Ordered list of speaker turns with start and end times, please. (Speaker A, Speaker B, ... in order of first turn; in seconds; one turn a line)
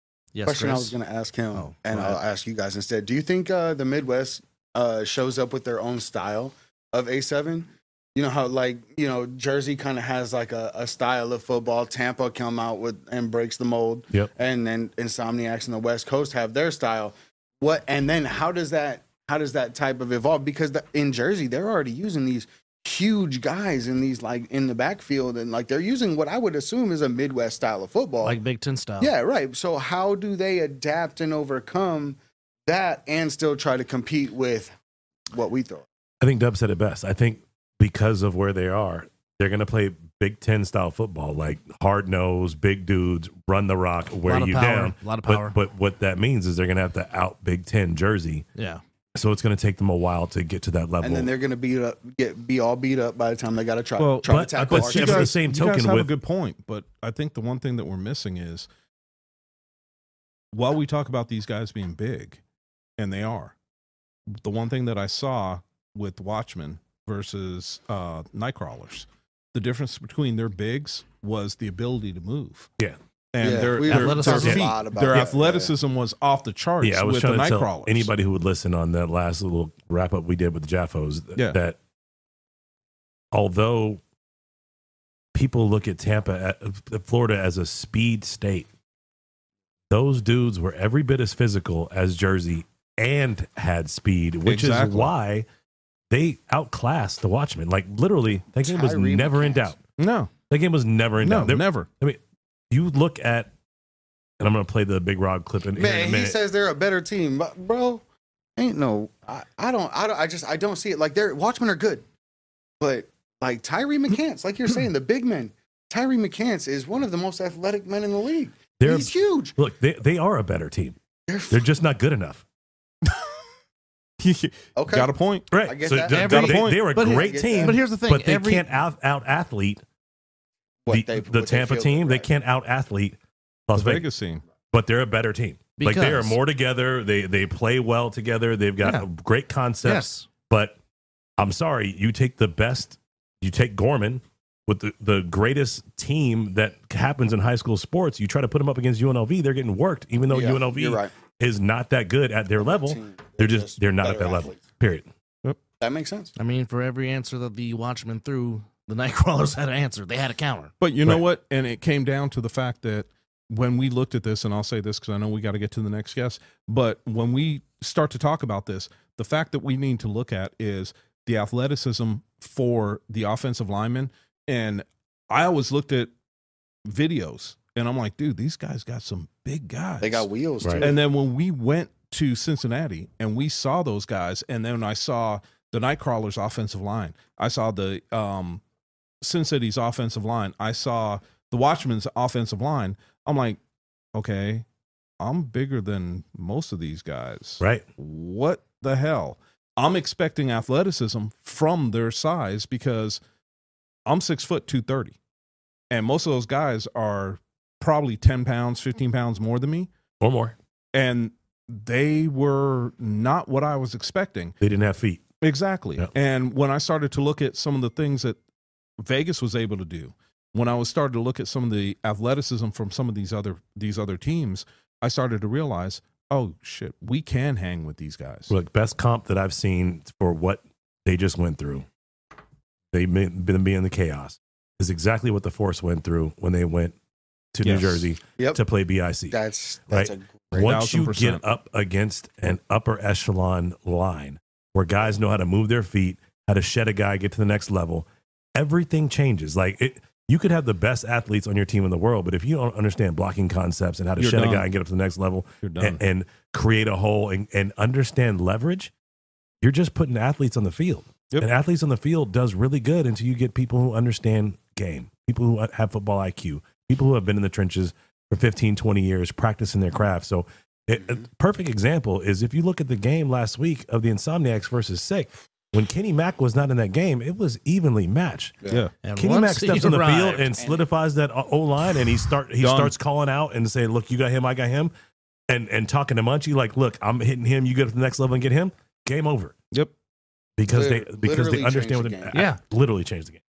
Speaker A: 0.3-1.0
Speaker B: 0.4-28.4
Speaker A: 1.5-2.2
Speaker A: 28.2-29.1
Speaker B: 29.0-34.7
Speaker B: 35.3-35.8
Speaker C: 36.2-48.5
Speaker A: 44.3-45.5
Speaker A: 48.5-48.8
Speaker C: 49.1-51.3
Speaker B: 51.0-55.3
Speaker D: 54.0-58.7
Speaker C: 54.2-56.1
Speaker D: 60.5-62.4
Speaker D: 63.0-63.5
Speaker D: 64.3-72.7
Speaker D: 73.3-78.1
Speaker B: 73.4-75.7
Speaker A: 73.8-74.7
Speaker C: 76.8-81.8
Speaker C: 83.3-84.0
Speaker C: 85.3-88.7
Speaker C: 89.9-95.5
Speaker D: 94.5-95.1
Speaker C: 96.1-99.8
Speaker B: 98.6-99.7
Speaker D: 100.0-100.3
Speaker C: 100.5-102.2
Speaker D: 101.2-101.9
Speaker C: 102.7-103.5
Speaker C: 104.4-106.4
Speaker B: 105.8-108.0
Speaker B: 108.6-112.0
Speaker B: 112.8-119.5
Speaker C: 118.8-121.0
Speaker B: 121.3-121.7
Speaker C: 121.5-122.4
Speaker D: 124.2-125.5
Speaker B: 124.8-126.4
Speaker C: 125.5-129.8
Speaker A: 126.1-128.7
Speaker D: 126.1-126.9
Speaker B: 127.0-127.8
Speaker B: 130.8-132.3
Speaker C: 130.9-133.2
Speaker C: 133.7-134.1
Speaker D: 133.7-134.4
Speaker C: 134.7-140.8
Speaker A: 135.8-136.3
Speaker A: 139.8-140.3
Speaker C: 141.4-155.1
Speaker B: 150.3-151.1
Speaker B: 152.6-154.6
Speaker B: 155.8-156.3
Speaker A: 156.4-160.7
Speaker D: 160.8-176.1
Speaker D: 176.8-180.3
Speaker B: 180.0-181.0
Speaker C: 180.6-180.9
Speaker D: 180.8-188.6
Speaker D: 189.2-193.6
Speaker D: 194.1-194.7
Speaker D: 195.2-203.2
Speaker D: 204.1-205.1
Speaker D: 205.9-209.9
Speaker C: 210.2-210.5
Speaker D: 210.9-214.6
Speaker C: 214.6-215.2
Speaker D: 215.4-218.4
Speaker D: 219.0-228.5
Speaker C: 228.5-231.8
Speaker C: 232.9-236.9
Speaker C: 237.5-239.4
Speaker D: 237.6-238.1
Speaker B: 239.3-240.5
Speaker C: 239.9-258.9
Speaker D: 240.5-241.4
Speaker D: 254.2-254.7
Speaker D: 255.6-256.0
Speaker C: 259.6-278.6
Speaker A: 279.0-280.5
Speaker C: 279.2-284.9
Speaker D: 282.6-282.9
Speaker C: 285.5-289.5
Speaker C: 290.6-293.4
Speaker B: 290.7-292.4
Speaker A: 292.3-292.6